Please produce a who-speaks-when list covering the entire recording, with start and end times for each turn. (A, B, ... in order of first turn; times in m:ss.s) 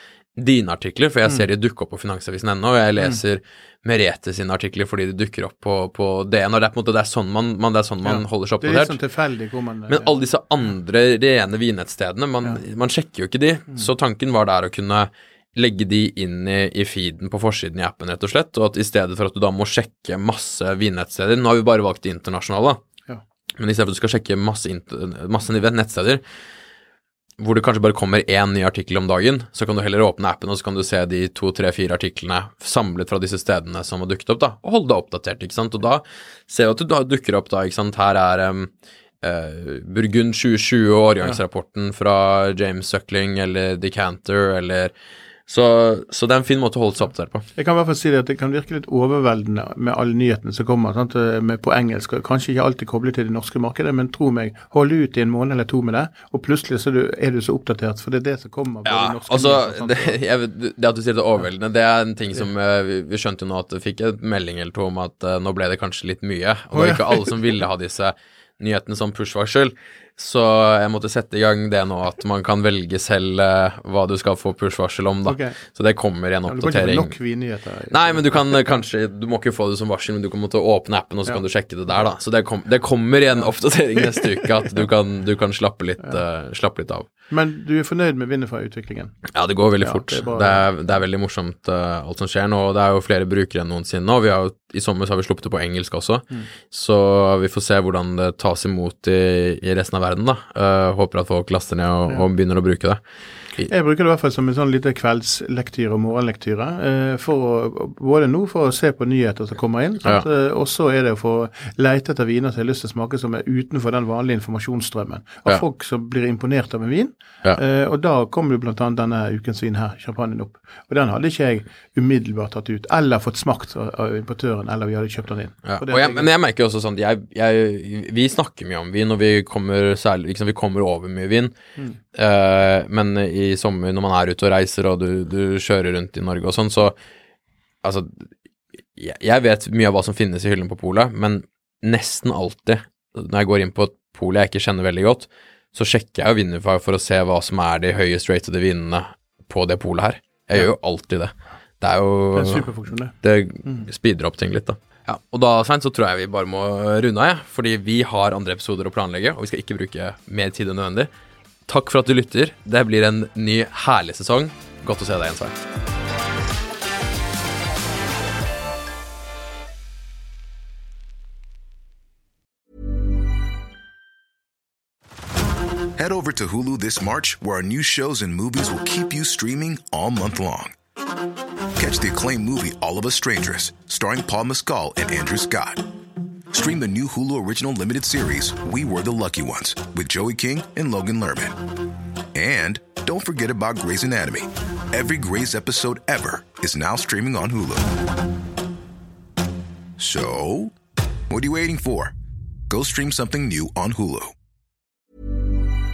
0:00.4-0:09.0 A
0:08.0-0:10.2 B
0:09.9-0:22.8 A
0:23.6-0:26.2 A
0:27.4-0:38.7 A
0:39.2-0:44.9 A
0:45.5-0:47.5 A
0:47.6-1:00.2 B
0:58.8-1:17.1 A
1:06.7-1:07.3 B
1:15.3-1:15.6 B
1:16.5-1:18.6 B
1:17.9-1:27.1 A
1:24.0-1:24.5 B
1:27.3-1:29.3 B
1:29.3-1:43.0 A
1:29.8-1:30.7 B
1:43.6-2:06.3 B
2:05.6-2:11.6 A
2:12.1-2:17.0 A
2:17.8-2:18.3 A
2:19.0-2:41.1 A
2:32.3-2:33.9 B
2:41.7-2:45.6 A
2:56.0-3:00.8 C
3:01.8-3:05.9 C
3:06.5-3:11.6 C
3:12.3-3:18.0 C
3:20.0-3:20.8 C
3:21.3-3:22.1 C
3:22.7-3:24.3 C